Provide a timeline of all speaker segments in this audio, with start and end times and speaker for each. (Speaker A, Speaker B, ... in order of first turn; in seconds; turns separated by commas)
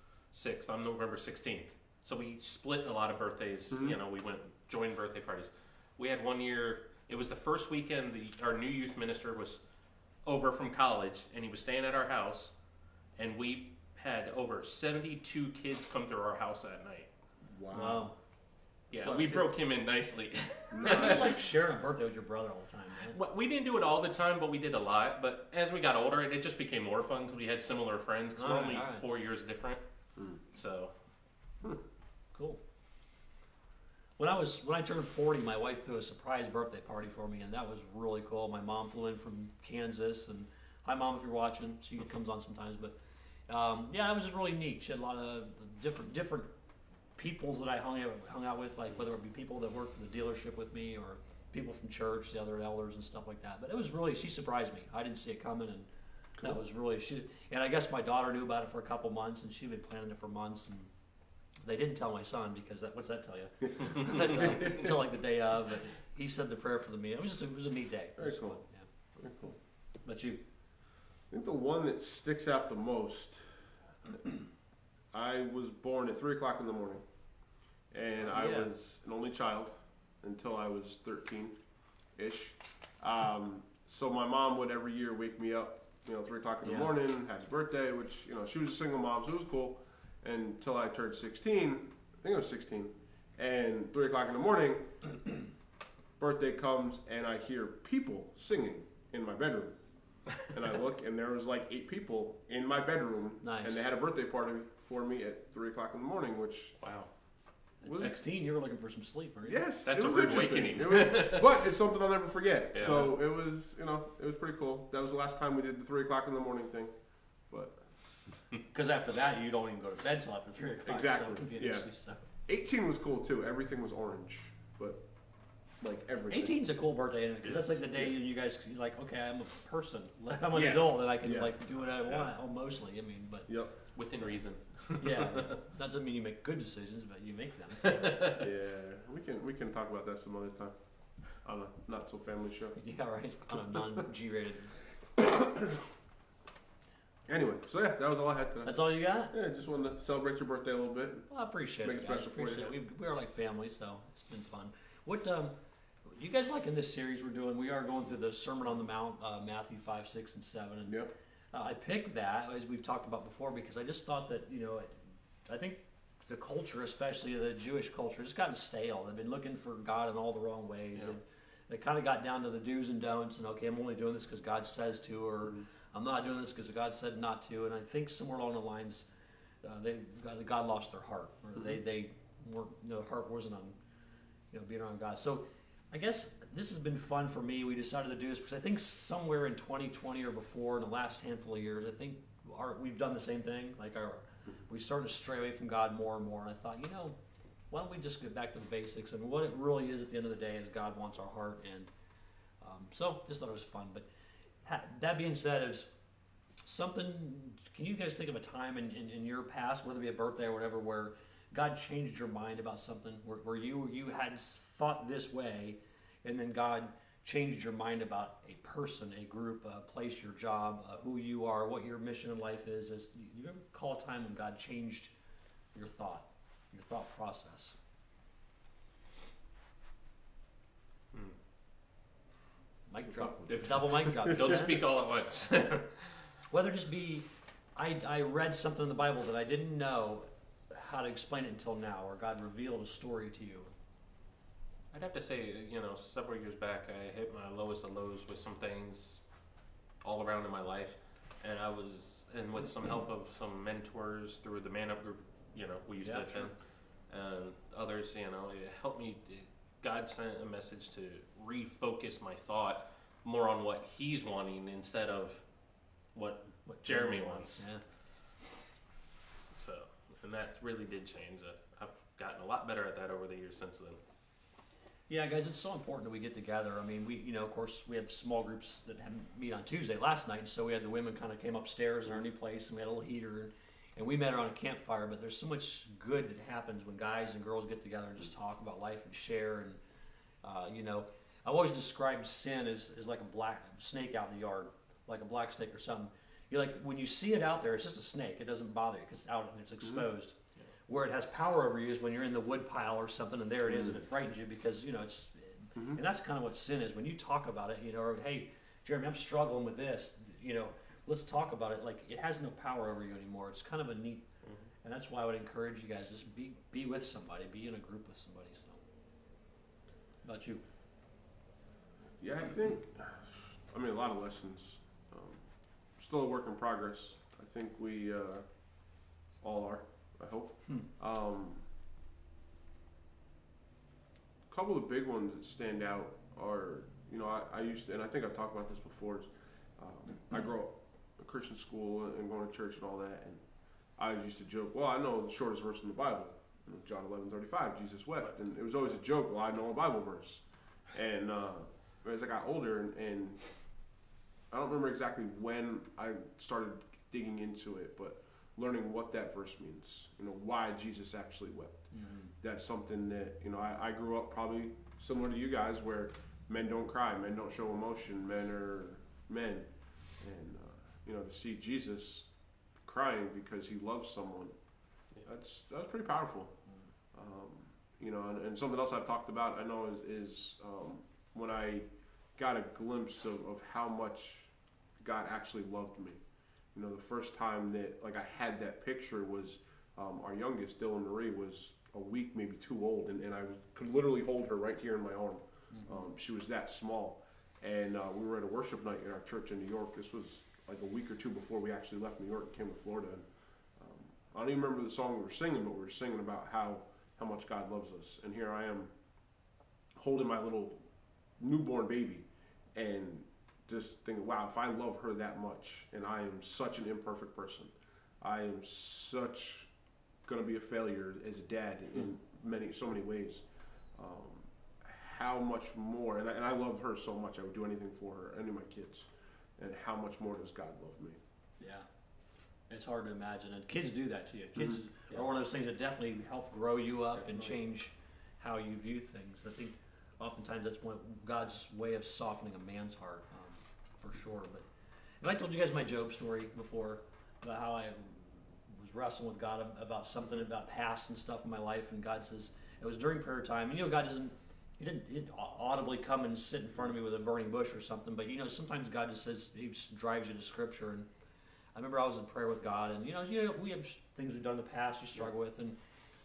Speaker A: 0.3-9.6, Speaker B: 3.7-4.0, Speaker A: 10.2-12.5, Speaker A: 13.2-17.1, Speaker B: 17.5-18.1, Speaker C: 17.7-18.1, Speaker A: 18.9-21.4, Speaker B: 18.9-19.6, Speaker B: 20.7-21.3, Speaker C: 20.8-23.2, Speaker A: 23.0-29.8, Speaker C: 28.4-29.0, Speaker A: 30.5-30.9, Speaker C: 32.3-32.6, Speaker C: 34.2-43.0, Speaker C: 43.5-46.5, Speaker C: 47.2-55.9, Speaker C: 56.4-60.9, Speaker C: 61.6-68.9, Speaker B: 64.3-64.9, Speaker B: 68.2-68.6, Speaker B: 69.2-69.5, Speaker C: 70.0-70.4, Speaker B: 71.3-74.3, Speaker B: 75.1-77.0, Speaker B: 77.9-81.6, Speaker C: 78.2-78.7, Speaker B: 82.1-95.2, Speaker C: 86.6-86.9, Speaker B: 96.2-99.8, Speaker B: 100.3-106.8, Speaker C: 103.4-103.8, Speaker A: 106.8-107.1, Speaker C: 107.8-109.6, Speaker B: 107.8-108.2, Speaker B: 109.4-116.9, Speaker A: 109.8-111.5, Speaker A: 112.7-113.1, Speaker B: 117.5-117.8, Speaker C: 118.7-122.2, Speaker B: 120.8-121.9, Speaker B: 122.4-125.0, Speaker B: 125.8-126.6, Speaker C: 126.3-133.5, Speaker B: 130.5-131.5, Speaker B: 133.5-133.7, Speaker A: 133.9-135.6, Speaker C: 135.0-138.3, Speaker A: 137.8-138.4, Speaker B: 138.4-142.8, Speaker C: 142.8-144.8, Speaker B: 145.2-145.8, Speaker B: 147.3-151.3, Speaker C: 148.6-149.3, Speaker C: 151.3-155.5, Speaker B: 151.8-152.7, Speaker C: 156.1-161.0, Speaker C: 161.5-179.0, Speaker C: 179.6-183.8, Speaker C: 184.5-197.2, Speaker C: 197.7-201.9, Speaker C: 202.6-204.1, Speaker C: 204.6-205.9, Speaker C: 206.6-225.1, Speaker C: 225.7-227.7, Speaker C: 232.9-234.8, Speaker B: 233.1-234.6, Speaker A: 234.2-236.3, Speaker C: 236.5-243.7, Speaker A: 244.9-249.2, Speaker A: 250.0-265.4, Speaker C: 256.0-256.5, Speaker A: 266.1-267.7, Speaker C: 266.6-267.8, Speaker A: 269.5-274.0, Speaker C: 275.1-289.8, Speaker C: 290.4-300.4, Speaker C: 300.9-314.2, Speaker B: 303.7-304.0, Speaker B: 305.7-306.0, Speaker C: 314.8-318.8, Speaker C: 320.2-320.6, Speaker B: 322.2-331.7, Speaker B: 334.5-343.4, Speaker B: 343.9-353.5, Speaker B: 354.5-361.8, Speaker C: 361.9-362.3, Speaker B: 362.4-372.3, Speaker B: 372.8-374.5, Speaker B: 375.2-376.5, Speaker B: 377.1-386.2, Speaker B: 386.7-408.9, Speaker C: 395.7-396.0, Speaker B: 409.9-410.8, Speaker B: 411.4-419.7, Speaker B: 420.2-431.2, Speaker C: 431.6-431.9, Speaker C: 432.7-444.6, Speaker A: 437.1-437.6, Speaker C: 445.2-461.1, Speaker C: 461.7-465.8